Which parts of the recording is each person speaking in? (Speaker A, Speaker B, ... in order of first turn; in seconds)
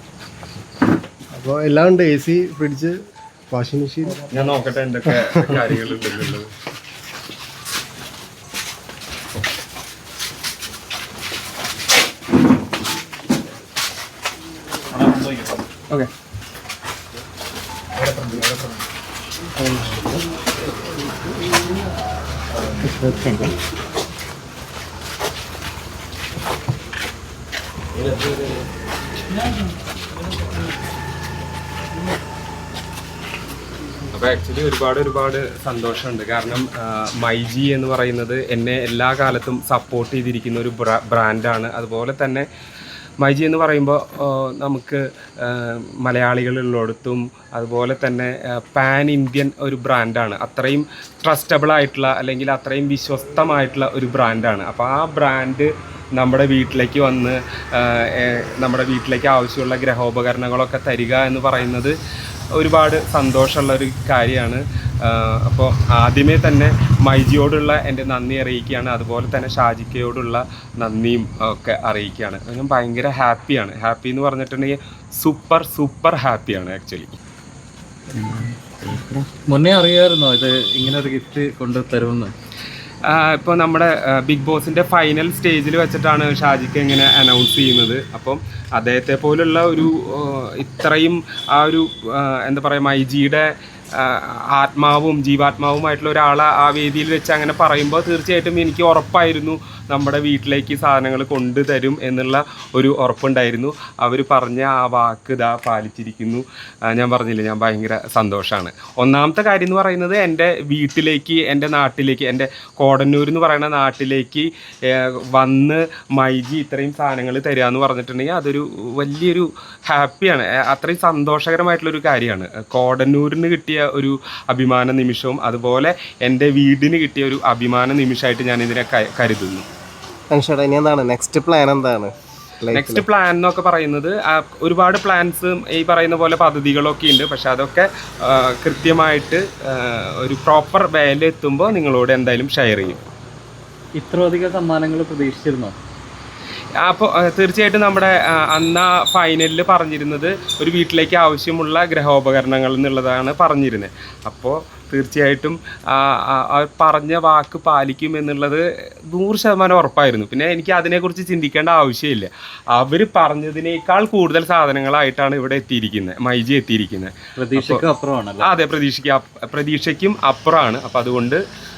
Speaker A: 1.3-3.0, 3.5-4.3, 130.3-133.1
Speaker B: 4.3-6.5, 34.1-42.5, 43.2-62.0, 62.5-77.2, 83.1-129.7, 132.7-143.0, 146.8-167.8, 168.4-171.4
Speaker C: 78.1-82.3, 144.0-145.8, 167.4-168.5